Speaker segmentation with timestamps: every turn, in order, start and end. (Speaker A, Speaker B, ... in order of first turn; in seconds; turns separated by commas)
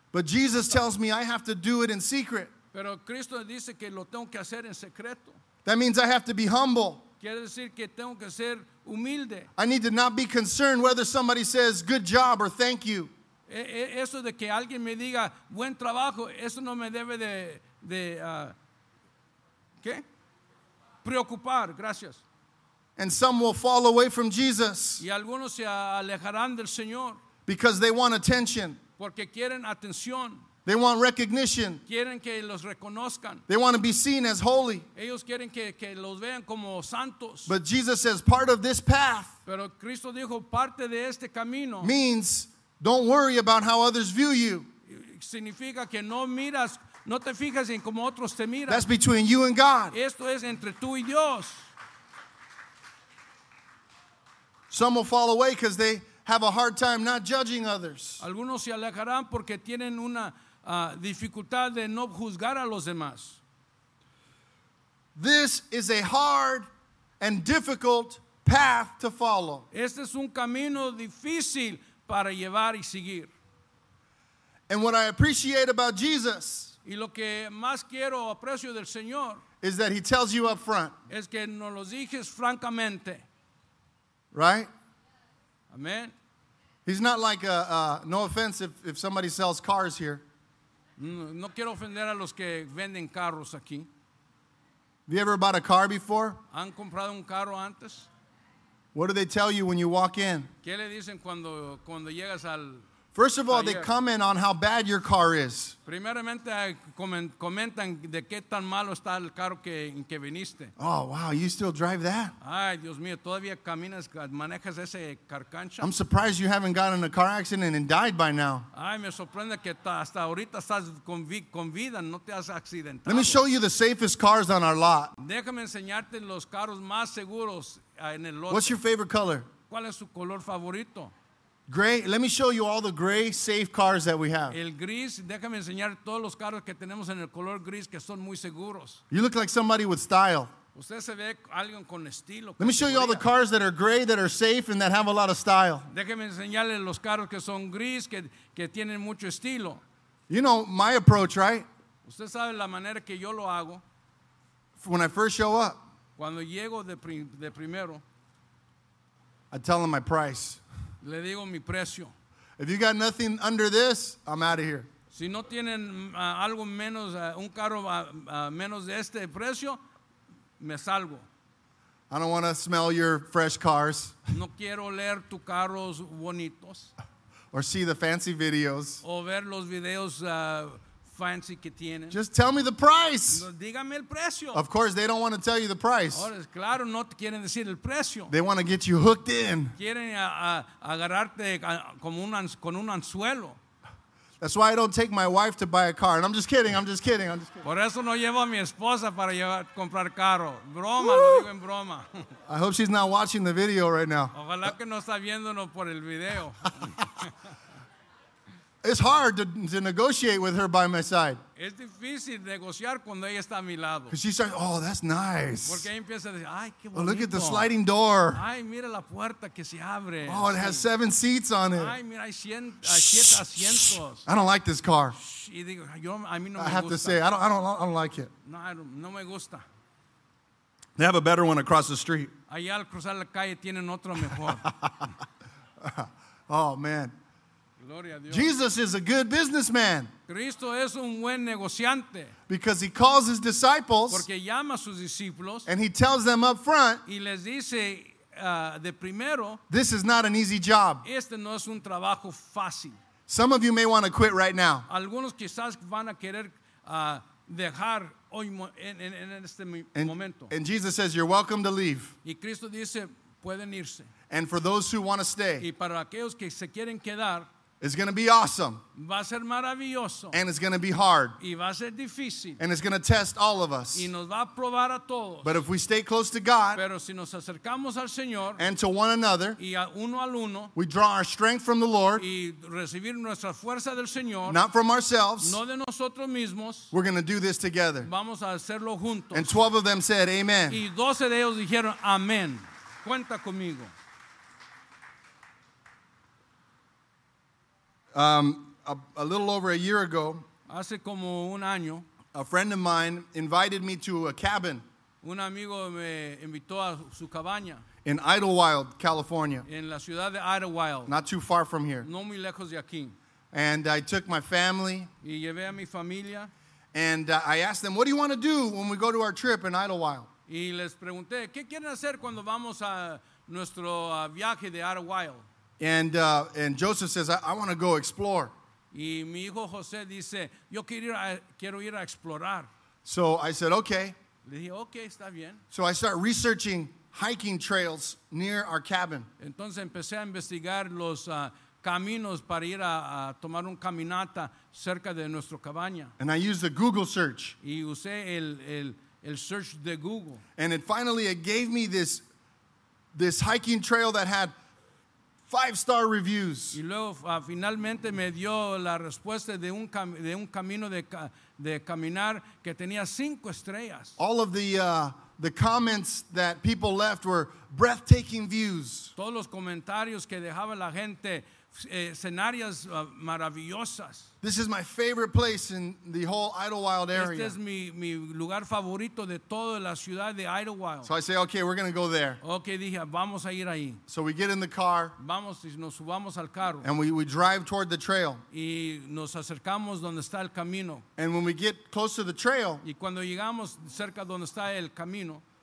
Speaker A: 0.1-2.5, Speaker B: 2.7-5.4, Speaker A: 5.7-7.0, Speaker B: 7.2-9.5, Speaker A: 9.6-13.1, Speaker B: 13.5-18.6, Speaker B: 21.0-22.2, Speaker A: 23.0-25.0, Speaker B: 25.0-27.2, Speaker A: 27.5-28.8, Speaker B: 29.0-30.5, Speaker A: 30.7-31.8, Speaker B: 31.9-33.4, Speaker A: 33.5-34.9, Speaker B: 35.0-37.5, Speaker A: 37.5-39.3, Speaker B: 39.5-41.9, Speaker A: 41.8-44.7, Speaker B: 44.9-48.9, Speaker A: 48.7-50.0, Speaker B: 49.9-51.7, Speaker A: 54.7-58.2, Speaker B: 58.2-63.4, Speaker A: 65.2-66.7, Speaker A: 67.2-69.7, Speaker B: 69.7-73.3, Speaker A: 74.7-76.7, Speaker B: 76.8-79.4, Speaker A: 79.6-81.0, Speaker B: 81.1-83.2, Speaker A: 84.3-84.7, Speaker B: 85.7-86.1, Speaker A: 86.9-90.2, Speaker B: 91.0-93.9, Speaker A: 95.1-96.4, Speaker B: 96.5-98.1, Speaker A: 98.9-100.5, Speaker B: 100.6-102.8, Speaker A: 103.2-105.8, Speaker B: 103.5-103.9, Speaker B: 105.9-110.7, Speaker A: 110.8-112.3, Speaker B: 112.4-115.9, Speaker A: 115.8-118.7, Speaker B: 118.7-123.4, Speaker A: 123.1-125.2, Speaker B: 125.2-128.8, Speaker A: 128.5-129.5, Speaker B: 129.7-131.1, Speaker A: 131.7-134.6, Speaker B: 134.5-139.0, Speaker A: 139.1-140.5, Speaker B: 140.8-143.3, Speaker A: 142.6-145.9, Speaker B: 145.9-149.8, Speaker A: 150.3-151.7, Speaker B: 152.0-153.8, Speaker A: 154.8-155.8, Speaker B: 156.2-158.0, Speaker A: 159.5-160.6, Speaker B: 161.0-162.1, Speaker A: 162.6-164.9, Speaker B: 165.1-169.8, Speaker B: 170.6-171.3, Speaker A: 172.1-174.2, Speaker B: 174.3-176.9, Speaker A: 177.5-179.0, Speaker B: 179.0-182.2, Speaker A: 182.1-183.5, Speaker B: 183.3-184.6, Speaker A: 184.5-186.3, Speaker B: 186.1-188.3, Speaker A: 188.3-189.7, Speaker B: 189.8-193.6, Speaker A: 194.4-197.6, Speaker B: 197.6-202.3, Speaker A: 201.2-201.4, Speaker A: 202.5-204.7, Speaker B: 204.3-207.3, Speaker A: 208.8-211.4, Speaker B: 211.6-214.2, Speaker A: 214.1-215.9, Speaker B: 215.7-217.7, Speaker A: 216.9-218.4, Speaker B: 218.3-220.9, Speaker A: 220.2-222.0, Speaker B: 221.7-224.3, Speaker A: 222.8-225.2, Speaker B: 225.1-227.2, Speaker A: 226.6-228.3, Speaker B: 228.4-229.6, Speaker A: 231.0-232.3, Speaker B: 232.5-234.8, Speaker A: 234.7-234.9, Speaker A: 235.8-237.1, Speaker B: 237.8-238.5, Speaker A: 238.3-240.1, Speaker B: 240.3-242.3, Speaker A: 242.5-244.3, Speaker B: 244.1-245.7, Speaker A: 245.7-247.0, Speaker B: 247.1-249.6, Speaker A: 249.7-251.0, Speaker B: 251.0-253.0, Speaker A: 253.3-254.9, Speaker B: 254.9-260.5, Speaker A: 259.9-262.1, Speaker B: 262.2-264.1, Speaker A: 264.3-265.7, Speaker B: 265.6-267.5, Speaker A: 267.8-268.8, Speaker B: 268.9-270.4, Speaker A: 270.3-271.4, Speaker B: 271.4-272.6, Speaker A: 272.6-274.1, Speaker B: 273.9-275.6, Speaker A: 275.4-276.8, Speaker B: 276.8-278.6, Speaker A: 278.6-279.6, Speaker B: 279.6-280.7, Speaker A: 280.8-282.2, Speaker B: 282.2-284.6, Speaker A: 284.5-285.6, Speaker B: 285.4-286.9, Speaker A: 286.9-288.1, Speaker B: 288.0-289.6, Speaker A: 289.3-290.8, Speaker B: 290.7-293.9, Speaker A: 298.1-300.4, Speaker B: 300.7-302.1, Speaker A: 302.3-304.8, Speaker B: 305.2-307.9, Speaker A: 308.1-309.6, Speaker B: 309.7-311.1, Speaker A: 311.1-312.1, Speaker B: 312.0-313.2, Speaker A: 313.5-315.1, Speaker B: 315.2-316.5, Speaker A: 316.9-320.3, Speaker B: 320.5-325.5, Speaker A: 325.8-328.5, Speaker B: 328.9-332.7, Speaker A: 333.1-334.1, Speaker B: 334.4-335.6, Speaker A: 335.7-339.3, Speaker B: 339.4-346.1, Speaker A: 346.2-347.6, Speaker B: 347.6-350.4, Speaker A: 350.6-352.2, Speaker A: 353.1-354.5, Speaker A: 355.5-356.8, Speaker B: 356.7-364.2, Speaker A: 364.2-369.1, Speaker B: 369.2-374.3, Speaker A: 374.4-377.6, Speaker B: 377.1-381.1, Speaker A: 381.1-382.4, Speaker B: 382.4-384.0, Speaker A: 384.1-385.1, Speaker B: 385.2-386.9, Speaker A: 386.8-388.4, Speaker B: 388.5-391.1, Speaker A: 391.2-392.8, Speaker B: 392.8-395.4